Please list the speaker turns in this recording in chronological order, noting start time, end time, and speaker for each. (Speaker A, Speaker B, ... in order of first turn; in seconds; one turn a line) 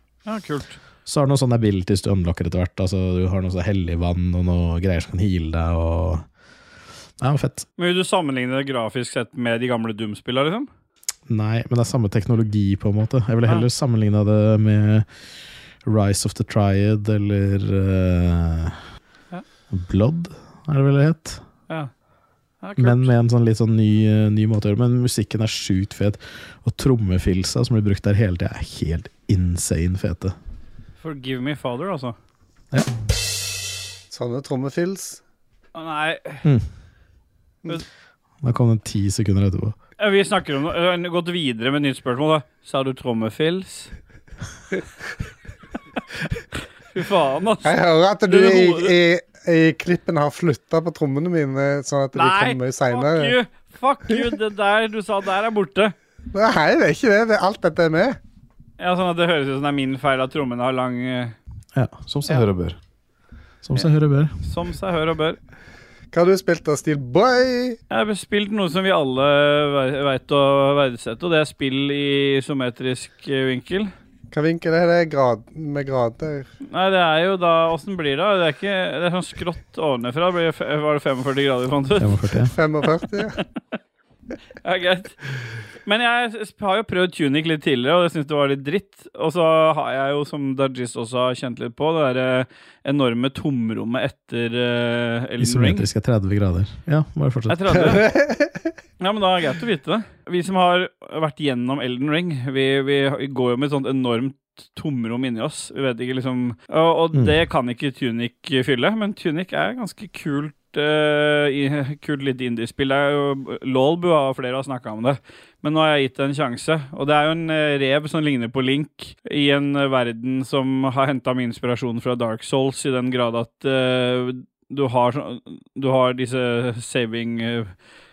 Speaker A: 0.2-0.8
Speaker B: 1.1-6.2
Speaker B: 7.2-7.7
Speaker A: 7.8-10.7
Speaker B: 11.3-15.1
Speaker B: 15.8-18.8
Speaker B: 19.7-21.4
Speaker A: 22.6-23.1
Speaker B: 22.8-30.4
Speaker A: 31.0-32.1
Speaker C: 34.1-35.2
Speaker A: 35.7-36.4
Speaker B: 38.4-39.8
Speaker A: 40.0-43.9
Speaker A: 46.9-48.9
Speaker C: 47.6-53.3
Speaker A: 52.1-55.9
Speaker C: 56.3-58.2
Speaker A: 58.8-61.4
Speaker B: 61.7-62.8
Speaker B: 63.6-64.3
Speaker A: 64.4-65.4
Speaker C: 66.1-67.8
Speaker A: 67.9-73.9
Speaker C: 74.3-76.5
Speaker A: 76.7-82.3
Speaker B: 82.0-82.5
Speaker C: 82.5-83.4
Speaker A: 84.6-85.2
Speaker A: 85.8-95.8
Speaker B: 95.4-98.0
Speaker A: 97.5-98.1
Speaker C: 97.9-98.7
Speaker A: 99.0-127.7